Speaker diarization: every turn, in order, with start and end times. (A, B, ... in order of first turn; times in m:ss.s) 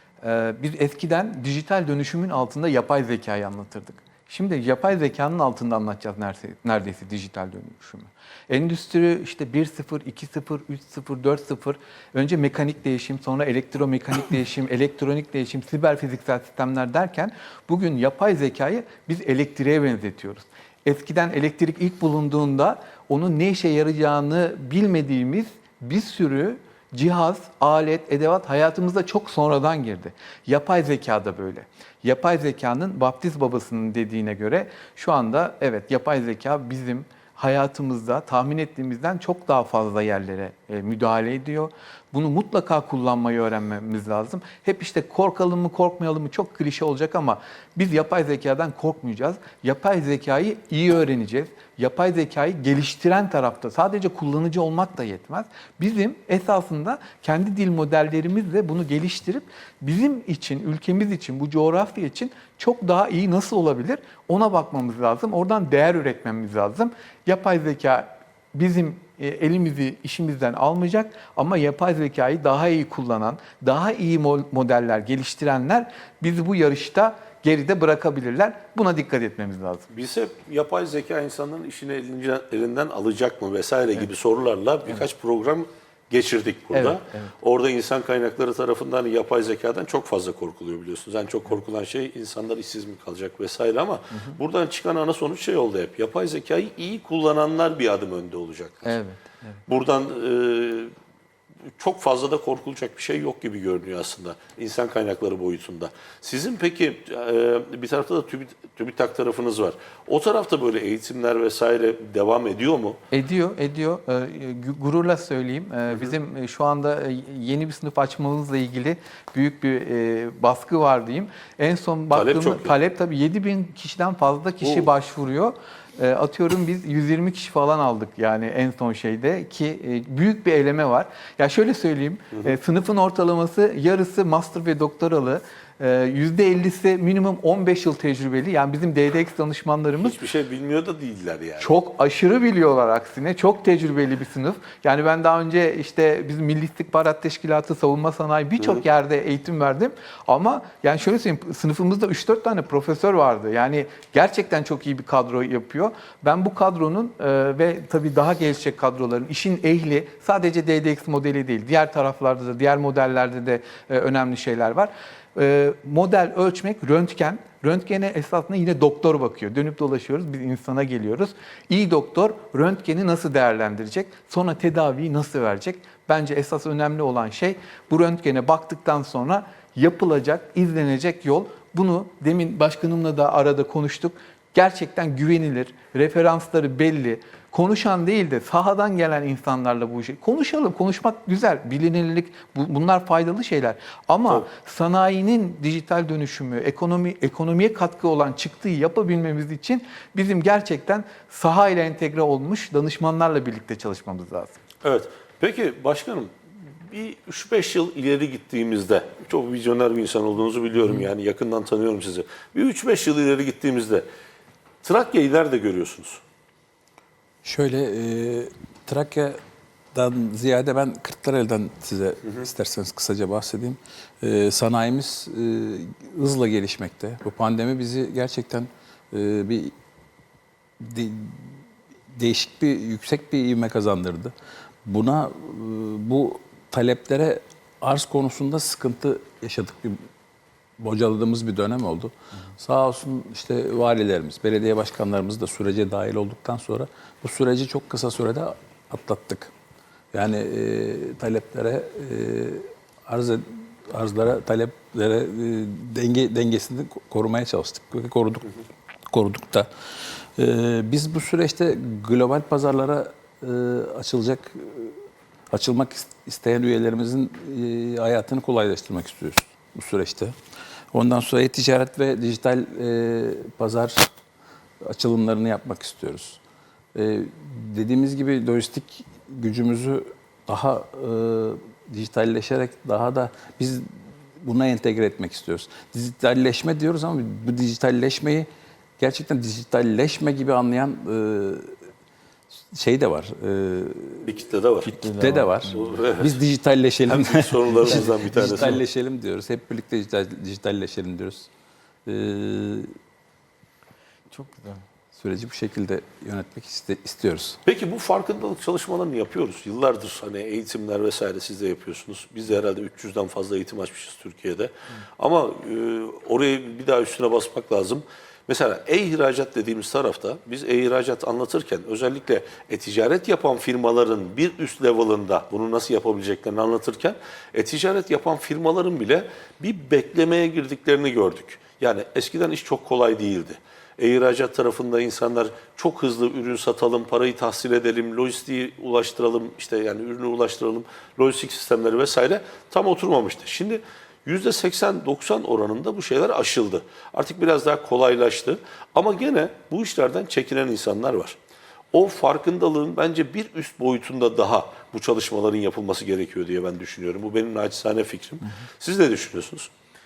0:00.2-1:19.9 A
1:19.9-1:39.0 B
1:26.7-1:27.3 A
1:38.8-1:39.6 A
1:39.7-1:40.9 B
1:41.8-1:53.0 B
1:53.1-2:20.2 A
2:02.1-2:02.8 B
2:20.0-2:21.7 B
2:21.6-3:24.6 A
3:24.8-3:34.1 B
3:34.8-3:36.2 B
3:37.4-3:39.4 C
3:39.9-3:49.7 C
3:50.8-3:51.6 C
3:52.1-3:54.3 C
3:54.8-4:00.1 C
4:00.8-4:09.5 C
4:10.1-4:18.5 C
4:19.1-4:19.7 C
4:20.4-4:30.4 C
4:30.9-4:34.1 C
4:34.8-4:36.4 C
4:36.9-4:48.5 C
4:49.0-4:51.8 C
4:52.7-4:54.4 C
4:54.3-4:55.0 B
4:54.9-5:01.5 C
4:55.0-4:55.8 A
4:55.7-4:56.4 B
4:57.1-4:58.8 B
5:02.1-5:02.9 C
5:04.3-5:04.8 A
5:05.2-5:07.6 C
5:07.6-5:51.4 B
5:51.9-5:59.7 B